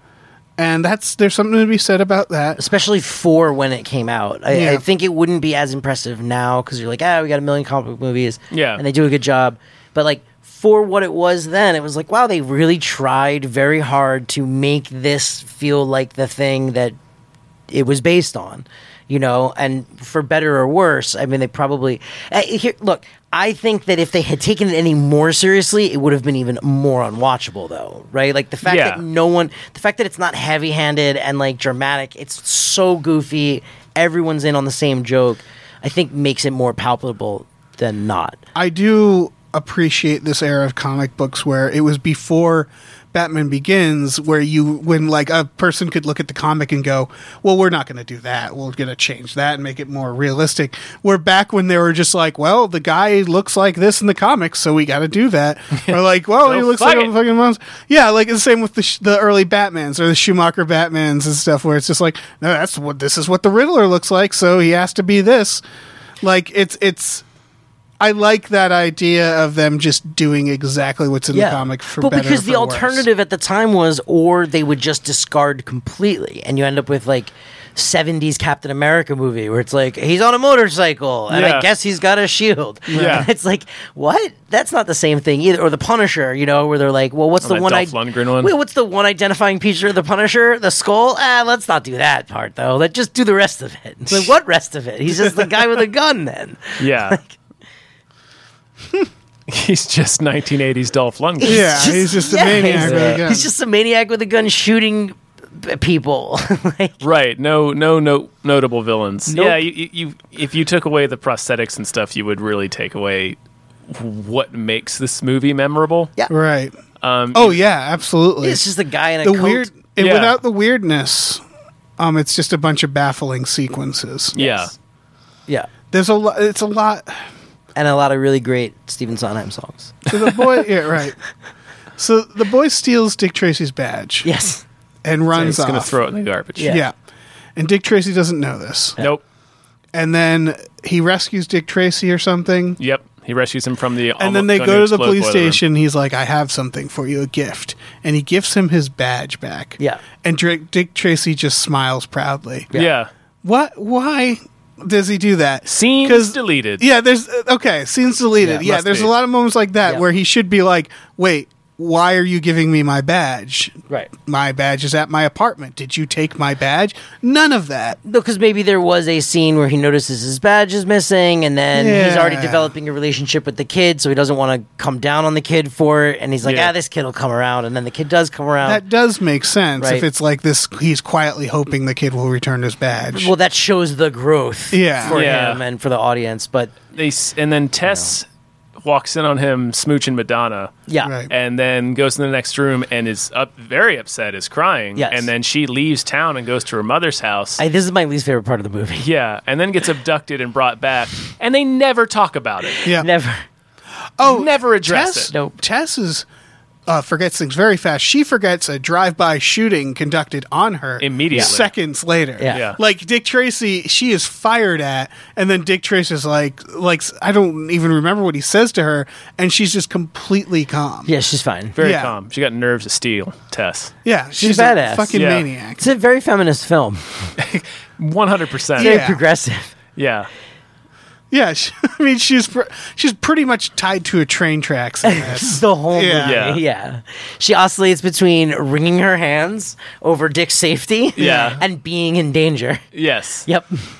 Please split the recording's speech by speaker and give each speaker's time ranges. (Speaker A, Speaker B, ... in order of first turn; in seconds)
Speaker A: 0.6-2.6, 4.5-4.8, 38.5-65.6, 66.2-67.2, 68.0-73.0, 82.9-83.2, 95.1-95.5, 101.4-103.5, 116.3-116.8, 117.3-118.6, 119.2-121.4, 122.0-124.4, 125.9-127.2, 130.1-131.2, 132.0-134.3, 135.0-135.9, 136.6-136.9, 137.6-139.0, 139.9-142.8, 144.2-152.7, 153.4-168.0, 171.7-172.7, 178.6-183.3, 184.7-185.2, 191.0-191.3, 204.2-206.2, 206.9-221.1, 221.8-222.1, 224.0-225.8, 228.8-229.2, 231.3-236.4
Speaker B: 2.6-16.9, 17.7-38.4, 71.3-97.4, 101.4-107.0, 109.3-109.6, 118.4-119.7, 124.4-124.7, 127.7-130.0, 134.2-134.6, 136.6-136.8, 158.4-158.7, 168.0-178.8, 179.8-180.1, 183.1-186.8, 187.8-188.1, 194.9-195.3, 197.6-199.1, 202.7-203.4, 205.3-205.6, 212.4-212.7, 221.1-221.7, 224.3-225.2, 225.8-227.3, 228.8-229.7, 235.0-242.8, 243.4-243.8
Speaker C: 8.5-8.8, 28.6-29.0, 55.8-57.1, 81.3-81.7, 82.9-83.3, 87.4-88.5, 96.8-97.2, 99.5-101.9, 102.6-103.1, 107.0-113.4, 113.9-116.1, 117.0-117.6, 120.0-120.4, 124.3-124.7, 135.3-136.7, 142.8-145.6, 152.7-153.1, 155.7-156.8, 158.6-159.1, 176.4-176.7, 185.1-185.6, 186.9-188.2, 188.8-190.7, 191.3-197.6, 199.0-202.8, 204.2-205.3, 211.0-211.7, 212.5-212.8, 221.7-223.9, 225.1-225.4, 227.4-229.0, 229.9-230.3, 236.2-236.6, 241.2-241.6, 242.9-243.5